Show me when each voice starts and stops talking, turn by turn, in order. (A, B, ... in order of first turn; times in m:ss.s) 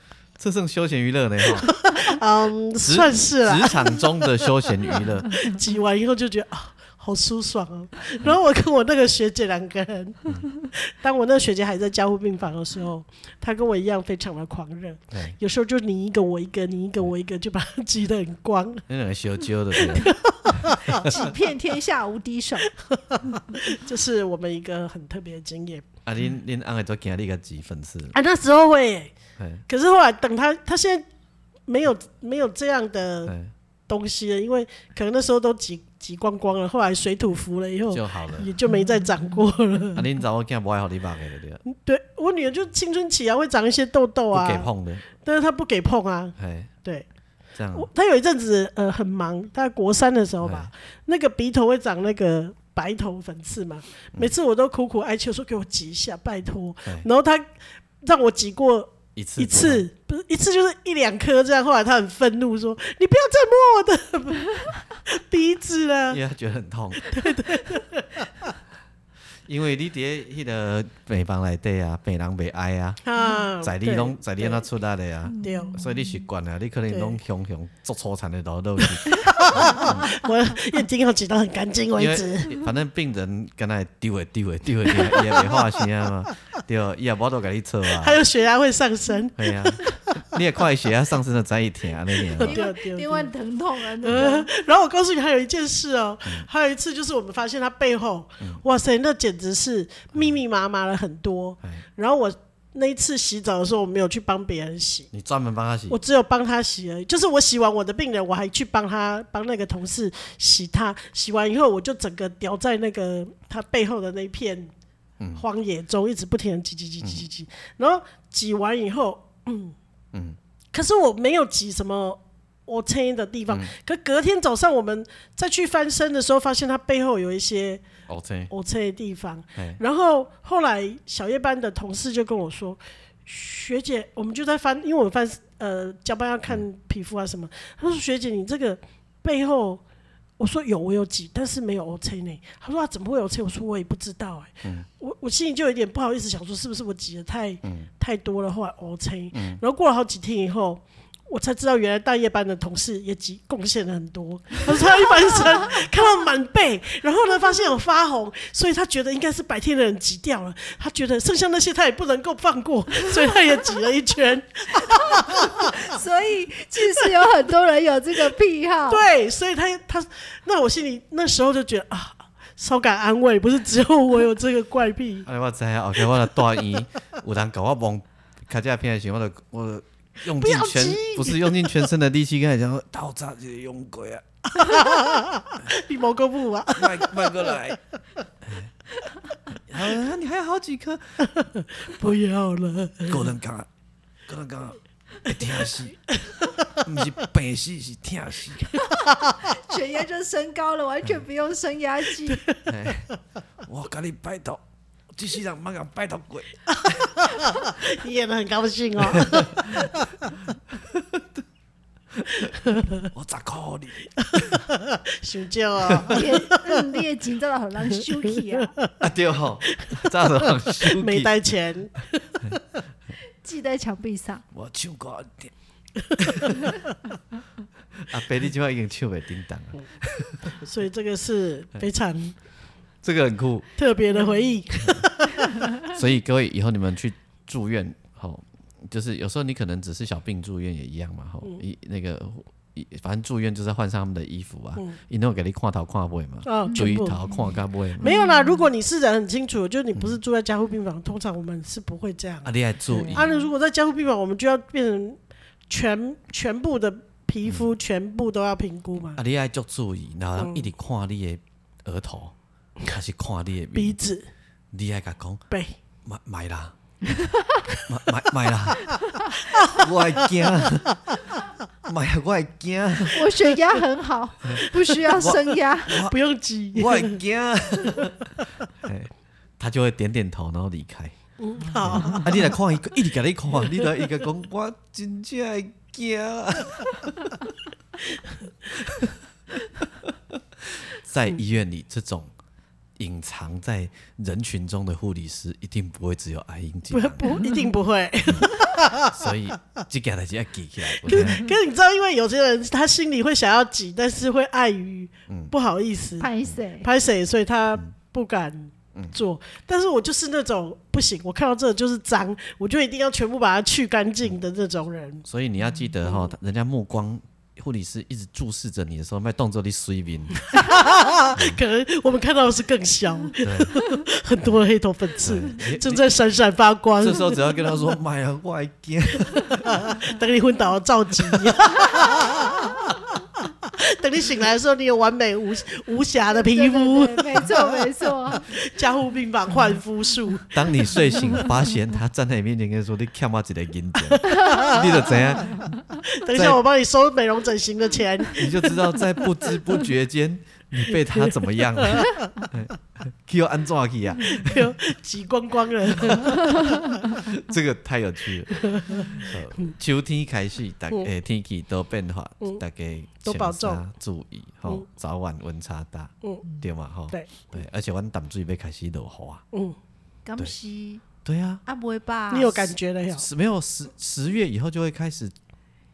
0:00.4-0:01.7 A
0:01.6-0:04.1 B
0:02.8-0:05.4 A
0:05.0-0:18.8 B
0:15.1-0:15.4 A
0:18.9-0:20.2 A
0:19.7-0:21.3 B
0:20.9-0:21.3 A
0:21.0-0:22.7 C
0:22.8-0:25.8 B
0:26.1-0:28.2 A
0:28.1-0:29.1 B
0:29.4-0:29.6 A
0:29.7-0:31.1 B
0:31.7-0:33.4 B
0:33.3-0:33.5 A
0:33.9-0:40.0 B
0:37.9-0:38.5 A
0:40.0-0:41.6 A
0:41.7-0:47.1 B
0:44.3-0:45.0 A
0:46.4-0:46.7 A
0:47.6-0:47.9 A
0:47.7-0:57.5 B
0:50.4-0:50.7 A
0:58.0-1:06.2 B
0:59.2-0:59.9 A
1:06.1-1:07.2 A
1:07.0-1:08.6 B
1:09.5-1:13.0 A
1:13.0-1:14.6 B
1:13.5-1:20.1 A
1:15.3-1:16.2 C
1:15.4-1:15.8 B
1:16.9-1:17.2 B
1:19.1-1:22.6 B
1:22.0-1:28.2 A
1:25.2-1:25.6 B
1:27.9-1:30.2 B
1:29.4-1:32.6 A
1:32.3-1:33.3 B
1:32.4-1:34.5 C
1:34.0-1:45.1 B
1:45.1-1:46.0 A
1:45.9-1:54.7 B
1:55.4-1:59.8 B
1:57.0-1:57.3 A
2:00.7-2:07.8 B
2:08.1-2:08.5 A
2:08.5-2:19.8 B
2:20.4-2:45.9 B
2:29.3-2:29.6 A
2:45.2-2:49.1 C
2:48.9-2:55.3 B
2:55.3-3:04.2 A
3:00.4-3:01.8 B
3:04.5-3:07.6 B
3:06.8-3:07.8 A
3:08.4-3:08.7 A
3:09.5-3:11.2 A
3:11.3-3:13.3 B
3:13.1-3:13.7 A
3:14.3-3:16.0 A
3:16.2-3:16.8 B
3:16.8-3:18.8 A
3:18.9-3:22.5 C
3:19.0-3:19.4 B
3:22.7-3:23.1 A
3:23.7-3:24.6 A
3:25.1-3:26.5 A
3:26.7-3:30.3 B
3:29.1-3:29.9 A
3:30.7-3:31.4 A
3:32.1-3:34.6 A
3:32.6-3:33.1 B
3:34.2-3:36.8 B
3:36.1-3:38.7 C
3:38.6-3:38.9 B
3:39.0-3:41.3 A
3:39.7-3:42.6 B
3:43.4-3:44.4 C
3:44.5-3:45.5 A
3:46.0-3:46.9 B
3:46.2-3:46.5 A
3:48.0-3:50.5 A
3:50.5-3:52.4 B
3:53.0-3:53.7 A
3:53.8-3:55.7 B
3:54.8-3:55.0 A
3:55.8-4:08.0 A
4:06.4-4:07.2 B
4:06.7-4:08.7 C
4:08.0-4:19.2 B
4:12.4-4:13.3 A
4:12.9-4:13.4 C
4:19.2-4:22.3 A
4:20.4-4:20.7 B
4:22.9-4:24.0 A
4:23.7-4:24.3 B
4:24.7-4:25.4 A
4:25.5-4:25.8 B
4:26.0-4:26.8 A
4:27.9-4:29.0 A
4:29.2-4:29.8 B
4:29.6-4:31.2 A
4:31.9-4:33.2 A
4:33.1-4:36.0 C
4:34.4-4:36.2 A
4:34.6-4:35.2 B
4:35.9-4:37.2 B
4:36.7-4:41.2 A
4:37.8-4:38.4 B
4:41.4-4:42.5 B
4:41.8-4:47.3 A
4:48.8-4:49.1 A
4:50.0-4:52.3 A
4:53.0-4:57.3 A
4:56.9-4:59.2 B
4:58.3-5:01.5 A
5:01.0-5:15.2 B
5:06.2-5:06.9 C
5:15.3-5:20.5 A
5:20.4-5:27.4 B
5:21.3-5:21.6 A
5:23.4-5:23.7 A
5:25.2-5:26.0 A
5:27.0-5:29.9 A
5:29.4-5:40.6 B
5:36.3-5:38.4 C
5:40.5-5:45.8 A
5:44.1-5:45.2 B
5:46.0-5:48.8 B
5:46.3-5:46.6 A
5:48.3-5:54.8 A
5:51.1-5:52.2 B
5:54.3-5:57.0 B
5:56.0-5:56.4 A
5:57.2-6:09.4 A
5:58.5-5:59.7 B
6:03.2-6:03.8 B
6:07.1-6:07.5 B
6:10.3-6:11.0 C
6:11.2-6:11.6 A
6:11.7-6:12.7 C
6:12.3-6:13.2 B
6:13.2-6:15.3 A